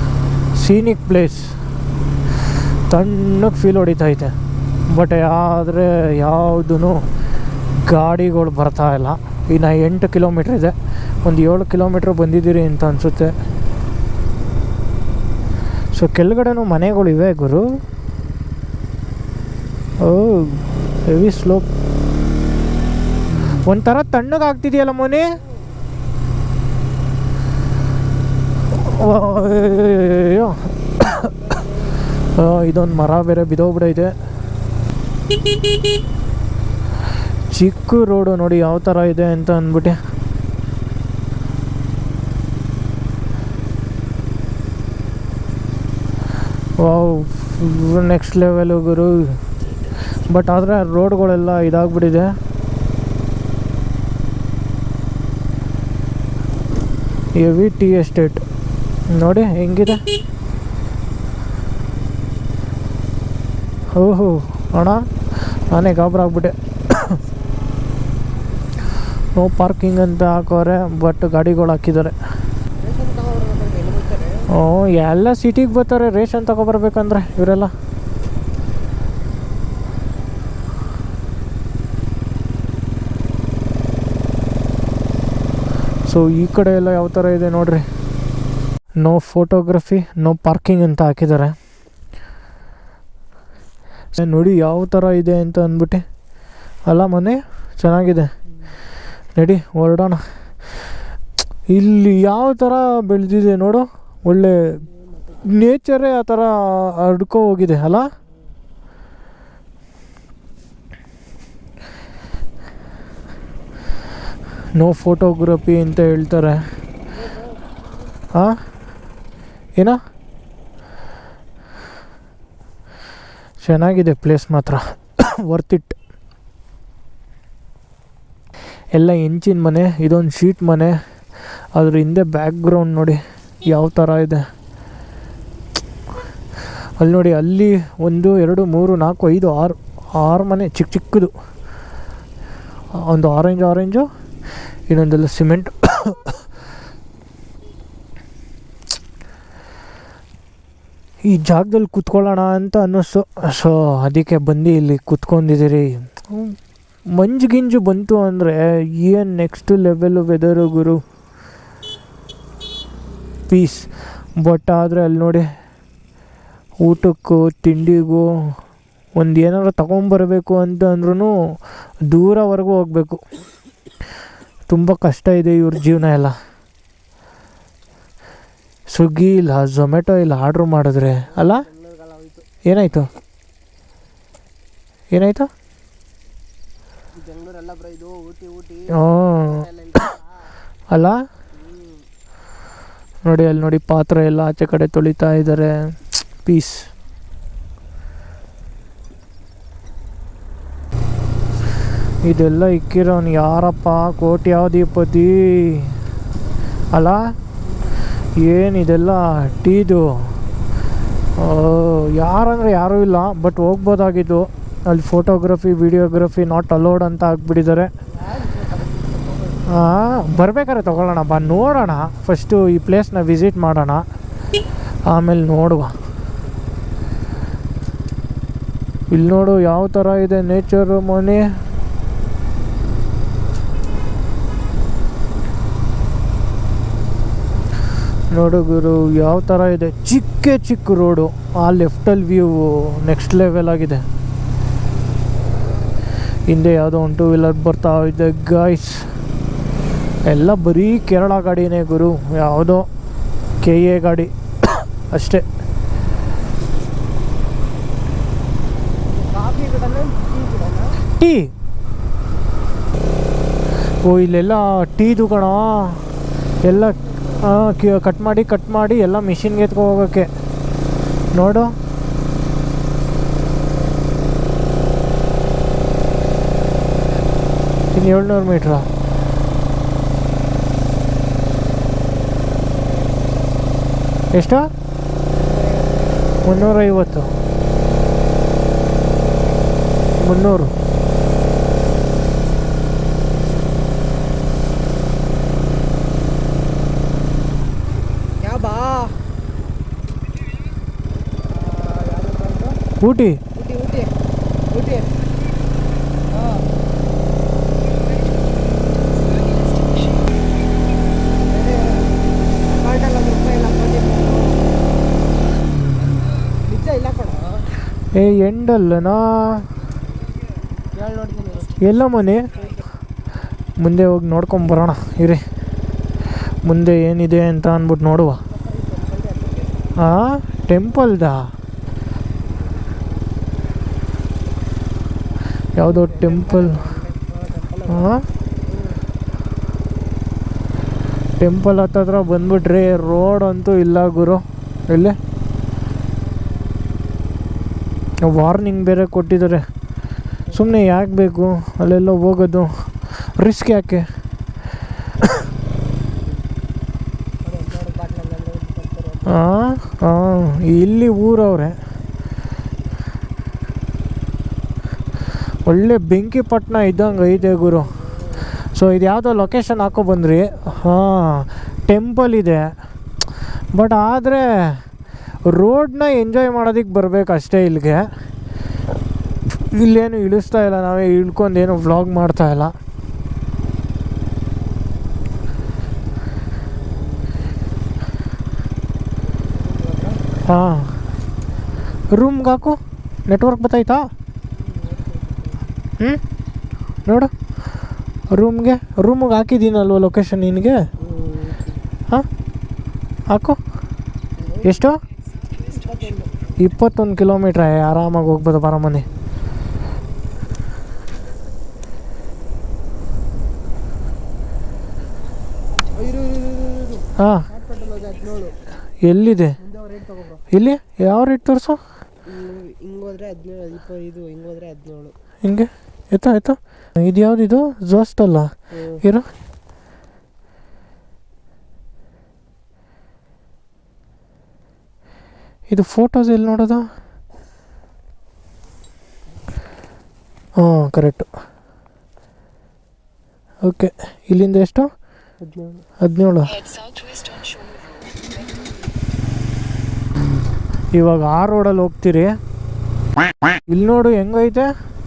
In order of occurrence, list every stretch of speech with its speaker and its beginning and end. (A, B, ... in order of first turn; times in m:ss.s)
0:00.6-0:01.5 A
0:02.9-0:04.3 A
0:04.9-0:07.1 A
0:07.8-0:13.3 A
0:15.9-0:17.7 A
0:20.0-0:21.7 A
0:23.6-0:25.3 A
0:28.7-0:31.4 A
0:32.2-0:34.2 A
0:37.5-0:40.0 A
0:46.8-0:49.5 A
0:50.2-0:52.3 A
0:57.3-0:58.4 A
0:59.1-1:00.0 A
1:03.9-1:07.2 A
1:09.3-1:12.1 A
1:12.8-1:14.5 B
1:14.5-1:17.7 A
1:26.0-1:27.8 A
1:29.0-1:31.6 A
1:34.1-1:36.0 A
1:36.9-1:38.3 A
1:39.4-1:40.2 A
1:41.7-1:44.8 A
1:44.8-1:45.5 B
1:45.4-1:48.1 A
1:54.8-1:56.6 A
1:57.1-1:57.7 B
2:03.6-2:06.0 A
2:08.9-2:10.9 A
2:11.7-2:14.4 A
2:17.0-2:21.3 A
2:23.0-2:24.0 A
2:24.9-2:26.4 A
2:31.2-2:36.6 A
2:37.1-2:41.0 A
2:43.5-2:45.4 A
2:46.8-2:48.5 A
2:49.2-2:51.3 A
2:52.1-2:53.2 A
2:54.7-2:56.3 A
2:58.9-3:01.6 A
3:01.3-3:02.5 B
3:02.6-3:03.1 A
3:05.1-3:05.5 A
3:07.1-3:10.5 B
3:08.9-3:09.6 A
3:10.9-3:11.2 A
3:11.5-3:12.0 B
3:13.2-3:16.8 A
3:22.2-3:26.0 A
3:26.9-3:27.2 A
3:28.4-3:30.3 A
3:31.4-3:37.9 A
3:38.1-3:39.8 B
3:39.7-3:44.0 A
3:45.1-3:45.9 A
3:49.1-3:51.4 A
3:58.3-4:04.0 A
4:06.5-4:09.1 A
4:10.2-4:12.9 A
4:13.6-4:15.4 A
4:19.1-4:21.0 B
4:21.1-4:21.5 A
4:24.0-4:26.0 A
4:26.6-4:27.5 B
4:26.6-4:30.3 A
4:31.3-4:31.7 A
4:33.4-4:34.6 B
4:37.9-4:38.9 A
4:42.7-4:43.5 B
4:44.3-4:44.7 A
4:45.3-4:46.7 B
4:46.4-4:47.4 A
4:50.2-4:50.7 A
4:58.4-4:59.2 B
5:01.5-5:02.7 B
5:03.0-5:03.4 A
5:03.5-5:04.1 B
5:04.7-5:05.2 B
5:06.3-5:06.6 B
5:11.4-5:14.7 B
5:16.6-5:17.6 B
5:18.1-5:19.7 A
5:20.9-5:22.0 B
5:21.8-5:22.5 A
5:23.8-5:25.4 A
5:26.6-5:28.4 A
5:28.4-5:30.0 B
5:30.0-5:31.5 A
5:35.8-5:36.8 A
5:35.8-5:39.0 B
5:37.9-5:38.2 A
5:41.4-5:45.2 A
5:48.2-5:49.6 A
5:50.5-5:54.0 A
5:50.5-5:50.9 B
5:57.4-5:59.5 B
5:59.3-6:01.8 A
6:05.6-6:07.9 A
6:07.2-6:08.2 B
6:08.5-6:12.7 A
6:13.7-6:14.8 A
6:15.5-6:18.1 A
6:19.7-6:22.7 A
6:29.2-6:30.2 B
6:30.4-6:30.9 A
6:32.1-6:34.1 A
6:34.5-6:35.8 B
6:37.0-6:37.3 A
6:38.3-6:40.8 A
6:41.0-6:41.8 B
6:43.3-6:43.6 A
6:44.4-6:44.9 B
6:44.6-6:45.0 A
6:45.6-6:46.4 B
6:46.6-6:49.1 A
6:55.9-6:58.6 B
6:57.2-6:57.5 A
6:59.0-6:59.6 A
6:59.6-7:00.4 B
7:00.5-7:01.8 A
7:02.3-7:05.1 B
7:05.4-7:09.2 A
7:08.7-7:09.0 B
7:15.7-7:16.9 A
7:20.6-7:21.2 A
7:23.6-7:24.9 A
7:25.4-7:25.8 B
7:26.0-7:26.9 A
7:30.9-7:32.3 A
7:33.7-7:34.7 A